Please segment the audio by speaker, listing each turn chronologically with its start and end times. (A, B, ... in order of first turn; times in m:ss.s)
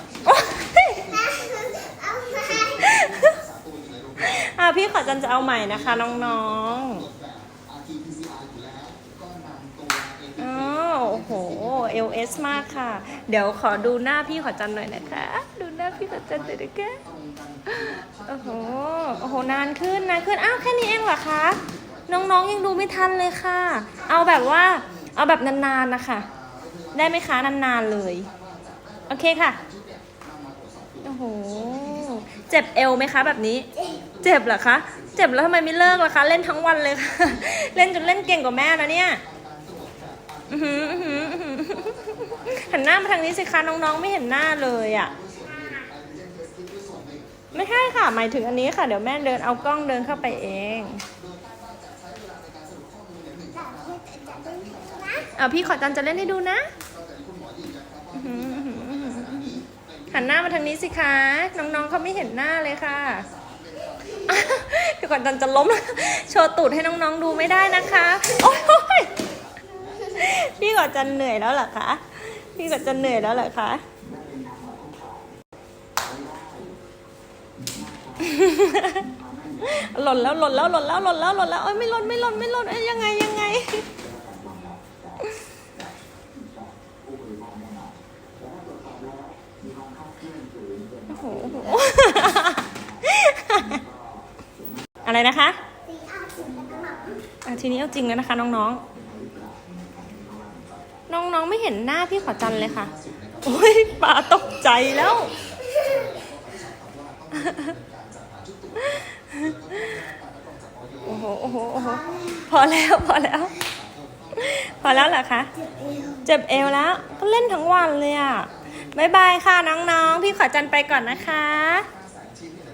0:00.2-0:01.1 A
0:01.0-0:03.1 B
0:02.8-0:03.4 A
0:04.2-0:07.1 A
0:10.4-0:17.0 A
0:17.7-0:26.3 A
0:26.9-0:28.3 A
0:29.1-0:29.6 A
0:31.0-0:39.2 A
0:33.8-0:34.1 B
0:40.5-0:45.1 A
0:45.3-0:46.0 B
0:47.5-0:51.0 A
0:53.5-0:55.3 B
0:55.3-0:56.7 A
0:58.1-1:03.3 A
1:04.2-1:09.1 A
1:09.9-1:13.8 A
1:18.2-1:19.1 A
1:19.6-1:23.8 A
1:31.1-1:33.8 A
1:35.0-1:35.6 A
1:35.8-1:37.2 B
1:37.4-1:38.8 A
1:41.1-1:45.4 A
1:45.6-1:46.3 B
1:47.3-1:47.8 A
1:48.8-1:50.0 A
1:51.0-1:53.5 A
1:51.8-1:52.4 B
1:54.3-1:55.5 A
1:55.5-1:56.3 B
1:56.2-2:01.9 A